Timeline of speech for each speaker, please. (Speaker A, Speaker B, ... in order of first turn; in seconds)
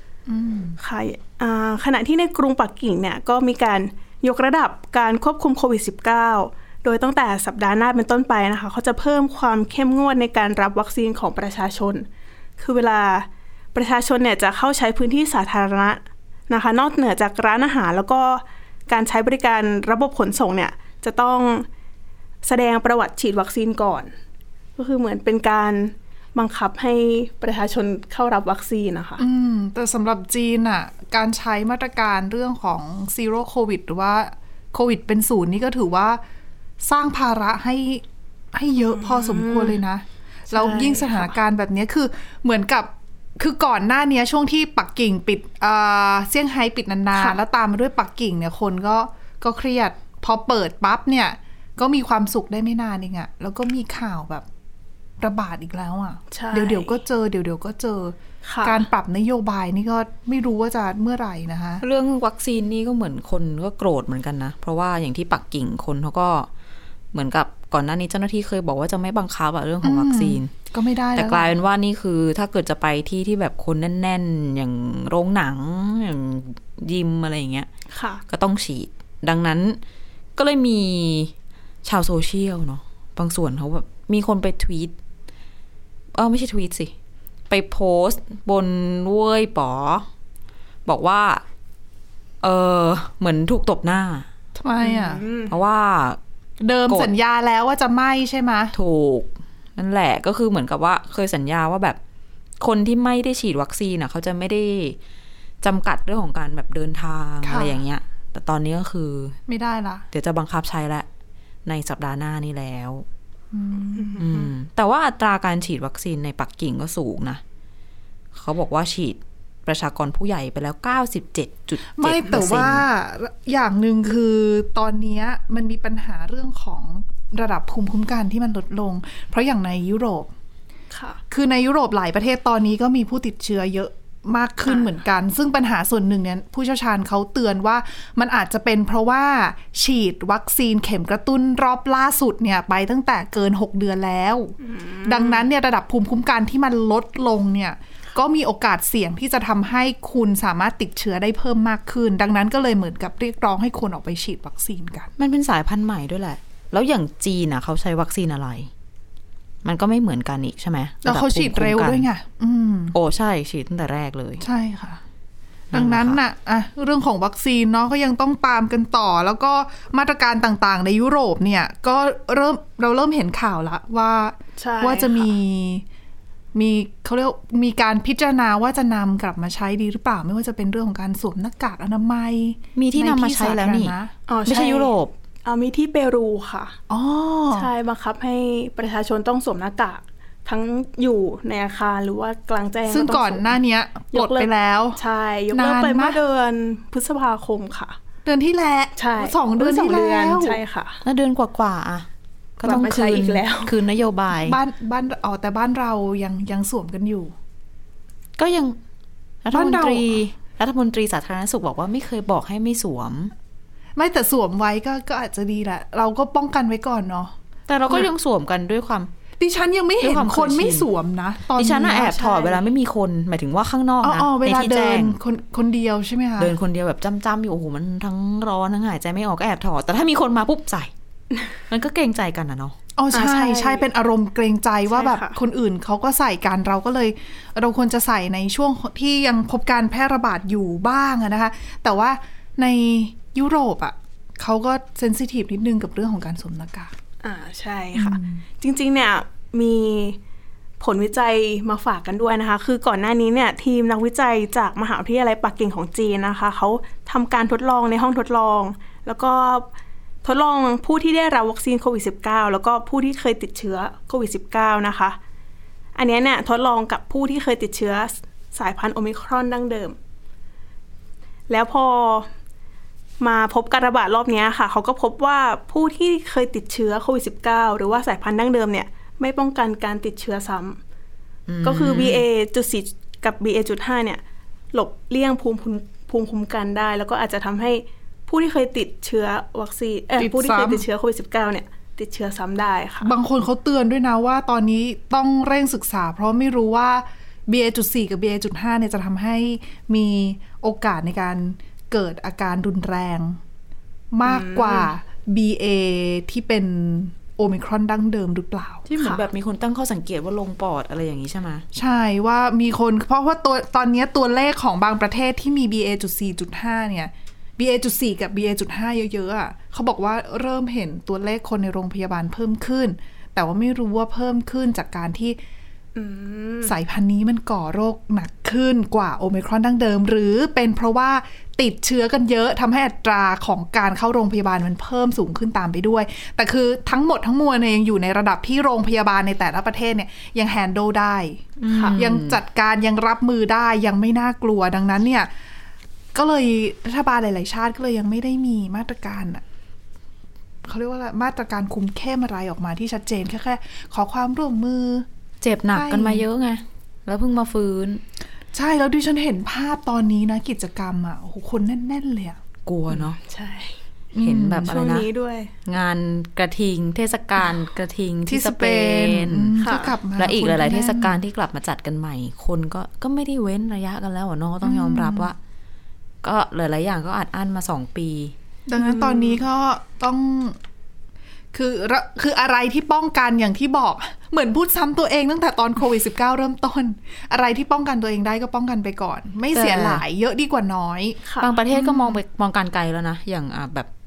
Speaker A: 0.3-0.8, 29.2-36.2, 36.8-54.5, 55.2-61.8, 69.8-71.5, 94.6-95.2, 96.6-98.8, 107.4-107.8, 109.5-110.1, 113.5-114.2, 122.0-130.3, 131.3-155.1, 161.0-162.9, 164.4-165.0, 165.7-175.8, 176.6-184.1, 186.9-187.7, 192.9-195.0, 195.5-196.2, 198.2-200.6, 204.4-207.3, 209.5-210.1, 214.0-217.3, 219.4-222.6, 224.0-226.5, 233.0-246.9, 247.9-248.4, 290.2-290.8, 293.0-303.4, 304.1-308.9, 311.8-325.4, 326.6-345.3, 346.1-349.4, 350.7-355.1, 355.7-356.2, 358.5-362.4, 364.1-364.7, 368.3-371.2, 374.6-375.3, 378.7-380.6, 381.5-391.2, 391.7-392.2
Speaker B: 0.8-12.1, 12.6-21.7, 22.4-24.1, 24.8-29.2, 38.9-39.8, 40.5-41.3, 56.3-56.9, 58.4-58.9, 77.9-78.2, 94.8-95.5, 114.0-114.5, 122.3-122.7, 130.9-131.2, 144.6-145.5, 174.6-175.3, 184.3-184.9, 185.4-186.8, 187.5-193.5, 194.1-198.0, 199.0-201.0, 202.6-203.8, 233.1-233.8, 234.9-235.4, 247.2-250.2, 250.8-259.7, 260.2-265.2, 265.9-270.0, 271.5-272.3, 273.2-280.8, 281.6-284.2, 284.7-293.1, 304.2-304.9, 309.0-309.2, 325.9-326.7, 341.7-342.0, 362.9-363.8, 364.6-365.5, 369.6-369.9, 378.8-379.4, 391.2-391.5
Speaker C: 61.8-66.5, 67.1-70.5, 71.2-77.7, 78.3-79.8, 80.4-81.3, 81.8-84.9, 86.1-86.9, 87.5-90.1, 90.9-91.4, 92.4-94.3, 95.5-96.2, 98.7-102.0, 102.6-105.0, 105.6-109.4, 110.1-111.1, 111.7-113.0, 114.2-117.4, 118.3-122.8, 155.2-158.7, 159.6-162.1, 162.9-164.4, 165.7-166.2, 182.8-183.9, 184.5-185.1, 201.0-202.1, 202.6-204.6, 208.4-208.8, 209.4-213.3, 217.7-219.1, 220.0-220.9, 221.5-225.2, 226.4-230.9, 231.7-232.8, 281.5-282.3, 308.9-311.7, 341.6-342.4, 355.4-358.0, 362.7-363.2, 364.2-365.1, 365.6-369.5, 370.2-375.4, 376.2-378.3, 389.6-390.0, 391.4-393.9